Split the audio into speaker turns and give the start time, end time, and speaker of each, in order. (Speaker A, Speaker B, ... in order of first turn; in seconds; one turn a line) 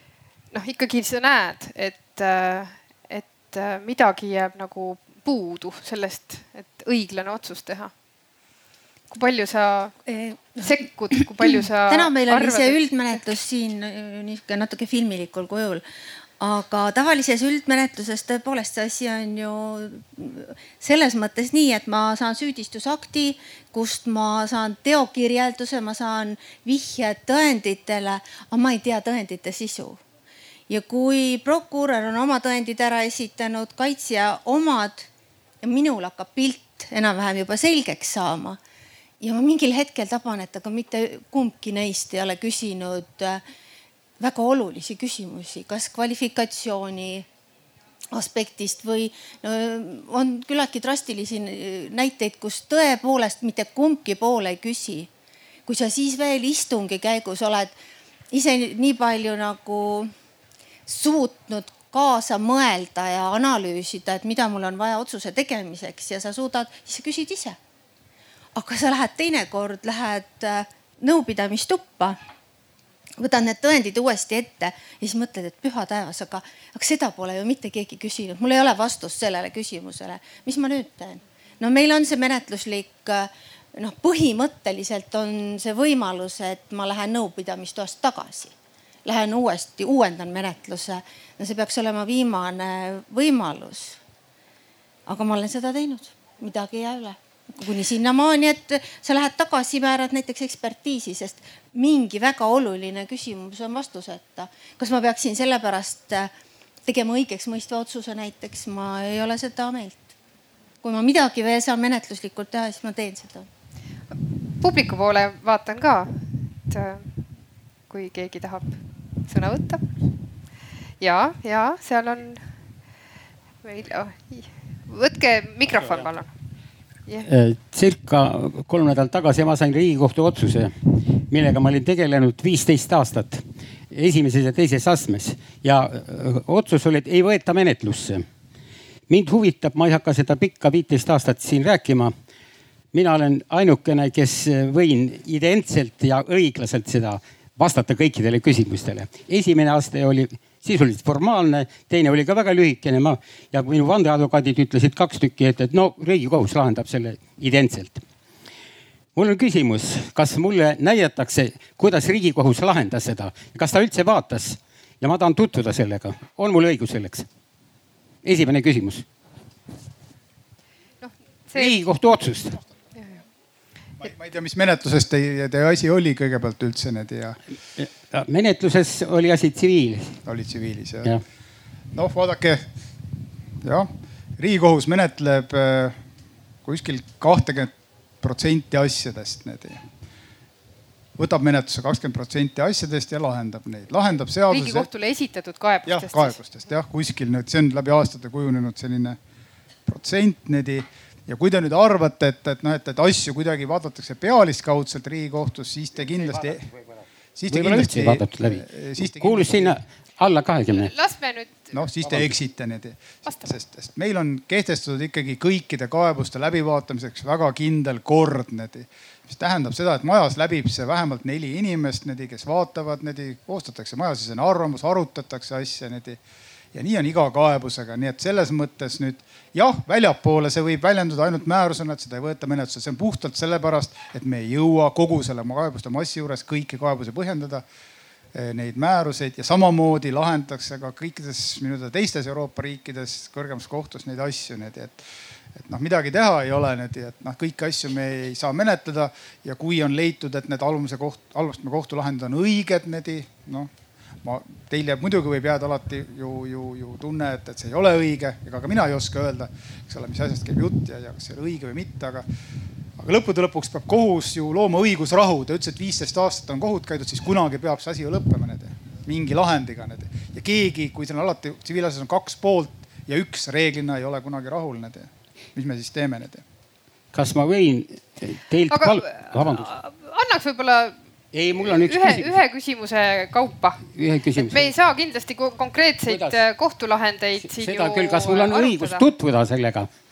Speaker A: 0.5-7.9
Speaker A: 9.1-9.9
Speaker B: 10.1-15.8
Speaker A: 10.6-12.8
Speaker B: 16.4-30.0
Speaker B: 30.7-35.1
Speaker B: 35.6-38.6
Speaker B: 39.2-43.4
Speaker B: 44.2-47.3
Speaker B: 48.1-55.1
Speaker B: 55.7-57.7
Speaker B: 58.3-60.1
Speaker B: 60.9-67.6
Speaker B: 68.5-72.2
Speaker B: 73.2-88.5
Speaker B: 89.0-94.0
Speaker B: 95.1-106.3
Speaker B: 106.9-110.1
Speaker B: 110.8-113.5
Speaker A: 114.6-117.1
Speaker A: 117.9-118.7
Speaker A: 119.3-119.9
Speaker A: 121.0-122.4
Speaker A: 123.6-126.3
Speaker C: 127.3-138.3
Speaker C: 139.1-142.1
Speaker C: 142.9-158.0
Speaker C: 159.1-167.3
Speaker C: 168.2-169.1
Speaker A: 171.0-171.8
Speaker C: 171.5-172.6
Speaker D: 174.0-177.4
Speaker C: 177.8-180.2
Speaker D: 180.2-181.1
Speaker D: 181.9-182.7
Speaker D: 183.6-186.0
Speaker D: 186.6-189.8
Speaker D: 191.2-194.9
Speaker A: 194.5-196.4
Speaker D: 195.9-199.2
Speaker D: 199.9-206.7
Speaker D: 207.4-209.8
Speaker C: 207.5-210.9
Speaker A: 210.7-211.7
Speaker D: 211.7-226.2
Speaker C: 212.0-212.4
Speaker D: 226.7-237.6
Speaker D: 238.3-245.0
Speaker D: 245.6-253.7
Speaker D: 254.2-262.2
Speaker D: 263.0-276.4
Speaker C: 277.1-279.7
Speaker A: 278.7-280.9
Speaker C: 281.3-282.4
Speaker A: 281.6-283.8
Speaker C: 283.9-284.8
Speaker A: 284.4-289.1
Speaker C: 286.1-286.4
Speaker C: 287.4-289.9